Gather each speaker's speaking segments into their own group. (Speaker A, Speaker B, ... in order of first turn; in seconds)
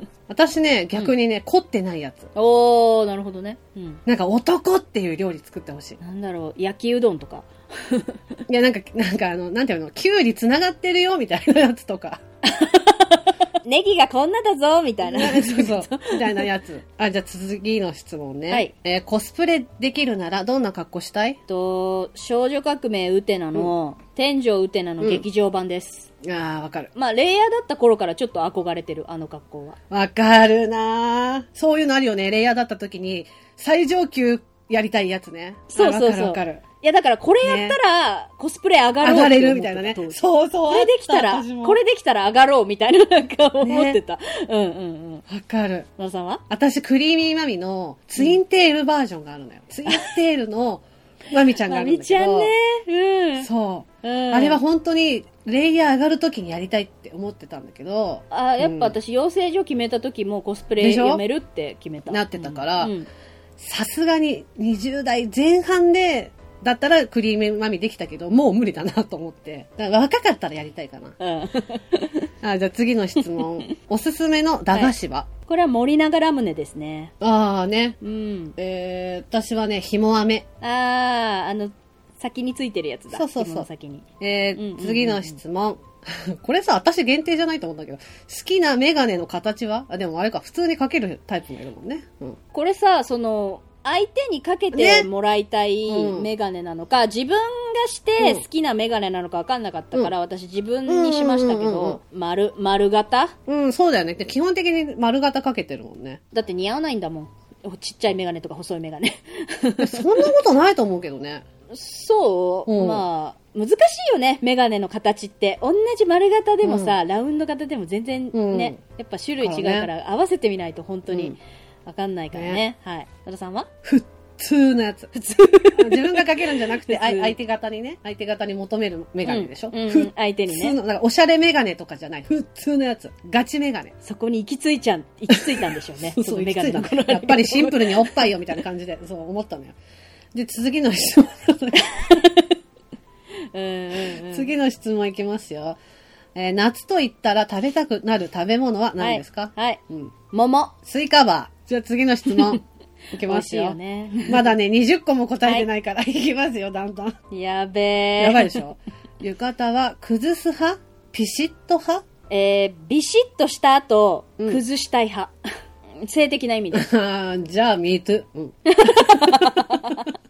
Speaker A: 0.3-2.3, 4.1-6.0, 8.5-12.2, 15.0-21.4, 25.0-25.3, 26.2-26.9, 29.9-36.6, 37.4-37.8, 39.0-41.8, 43.6-44.0, 45.3-45.9, 46.5-52.5, 53.4-59.0, 60.8-61.2, 62.1-63.0, 63.6-71.2, 72.4-75.3, 77.2-78.0, 78.6-80.5, 83.1-83.7, 84.2-92.4, 94.7-95.1, 95.9-96.3, 100.9-102.0, 103.5-106.2, 109.8-111.4, 112.7-113.1, 116.6-117.0, 118.3-118.8, 119.4-119.9, 121.1-121.4, 122.3-122.6, 123.8-125.1, 125.6-133.9, 135.3-139.8, 140.3-141.8, 144.0-145.8, 146.3-150.1, 150.8-152.6, 153.1-157.2, 158.2-162.0, 166.7-169.8
Speaker B: 2.4-4.0, 6.0-8.2, 12.4-16.5, 21.5-26.1, 26.9-29.8, 35.7-40.2, 40.7-45.2, 46.0-46.4, 51.6-53.5, 54.0-54.6, 58.3-63.1, 71.2-72.3, 73.4-73.7, 75.5-77.1, 78.0-78.6, 80.6-85.4, 92.5-103.3, 106.3-110.3, 111.7-123.7, 125.1-127.3, 129.2-130.8, 134.0-138.2, 141.8-142.5, 143.5-144.5, 149.0-149.8, 150.3-150.7, 153.2-154.5, 157.3-158.6, 162.3-165.3, 166.0-166.9, 168.7-170.1